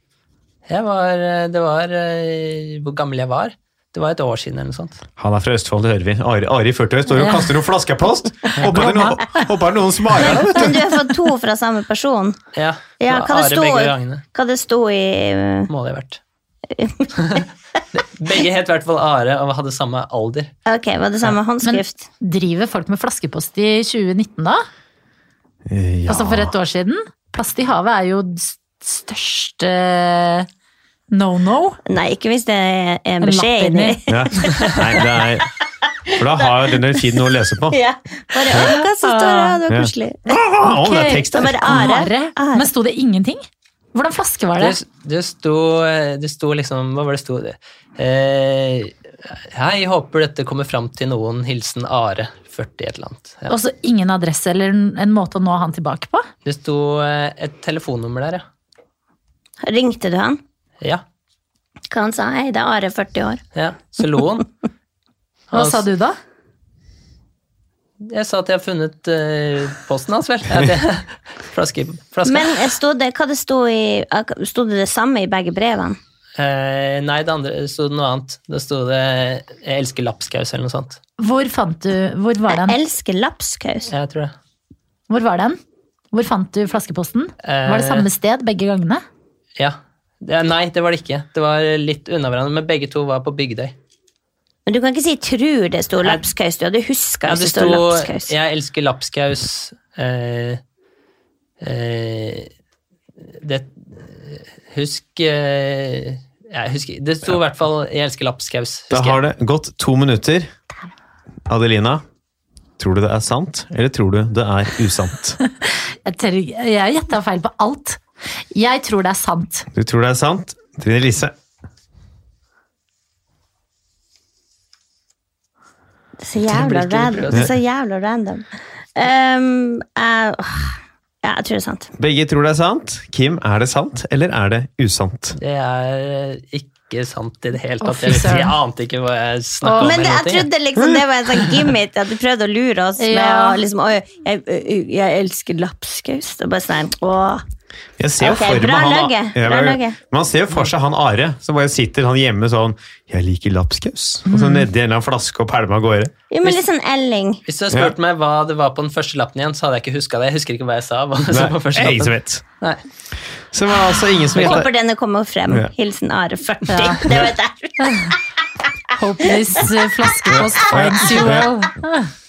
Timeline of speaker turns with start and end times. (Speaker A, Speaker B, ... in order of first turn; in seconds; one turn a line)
Speaker A: 0.7-5.0
Speaker B: 5.2-10.8
Speaker C: 7.1-7.5
Speaker C: 8.5-9.5
Speaker D: 10.2-12.4
Speaker A: 12.6-14.2
Speaker D: 13.0-15.7
Speaker A: 15.7-16.2
Speaker D: 16.8-17.4
Speaker A: 17.2-20.5
Speaker D: 20.7-22.1
Speaker C: 21.6-24.6
Speaker B: 25.7-26.5
Speaker C: 26.1-30.5
Speaker C: 31.1-31.8
Speaker D: 31.9-34.6
Speaker C: 33.2-34.0
Speaker B: 34.1-35.5
Speaker B: 36.1-37.8
Speaker D: 36.4-36.8
Speaker D: 37.7-40.4
Speaker C: 38.5-39.6
Speaker B: 39.7-41.9
Speaker C: 40.6-43.4
Speaker D: 41.3-42.7
Speaker C: 43.9-44.8
Speaker A: 44.6-53.5
Speaker C: 53.5-56.3
Speaker A: 56.5-58.5
Speaker D: 59.6-60.4
Speaker D: 61.9-63.4
Speaker A: 63.5-64.5
Speaker A: 65.5-65.8
Speaker C: 65.5-66.2
Speaker A: 68.0-72.6
Speaker D: 72.2-76.0
Speaker A: 76.4-81.0
Speaker C: 81.2-82.8
Speaker D: 82.6-83.9
Speaker A: 83.9-84.3
Speaker C: 85.1-85.6
Speaker C: 86.1-89.0
Speaker A: 87.4-88.1
Speaker A: 89.6-93.7
Speaker D: 94.7-98.3
Speaker A: 97.3-100.6
Speaker A: 101.6-102.5
Speaker A: 103.4-109.2
Speaker B: 108.9-110.5
Speaker B: 111.5-112.0
Speaker B: 112.8-115.4
Speaker C: 115.5-118.0
Speaker C: 118.5-119.7
Speaker B: 119.7-121.3
Speaker D: 126.2-131.9
Speaker A: 126.5-127.5
Speaker B: 132.0-135.4
Speaker A: 135.4-140.5
Speaker C: 137.8-138.5
Speaker C: 139.6-139.9
Speaker D: 139.8-147.4
Speaker C: 143.0-143.6
Speaker B: 148.0-156.1
Speaker D: 148.2-150.0
Speaker C: 154.3-154.7
Speaker D: 156.3-157.4
Speaker A: 157.5-162.8
Speaker B: 157.7-157.9
Speaker B: 161.3-162.4
Speaker B: 163.5-164.7
Speaker D: 164.4-168.1
Speaker C: 166.7-167.0
Speaker B: 167.1-167.3
Speaker C: 167.8-168.1
Speaker C: 168.9-172.1
Speaker B: 170.3-171.5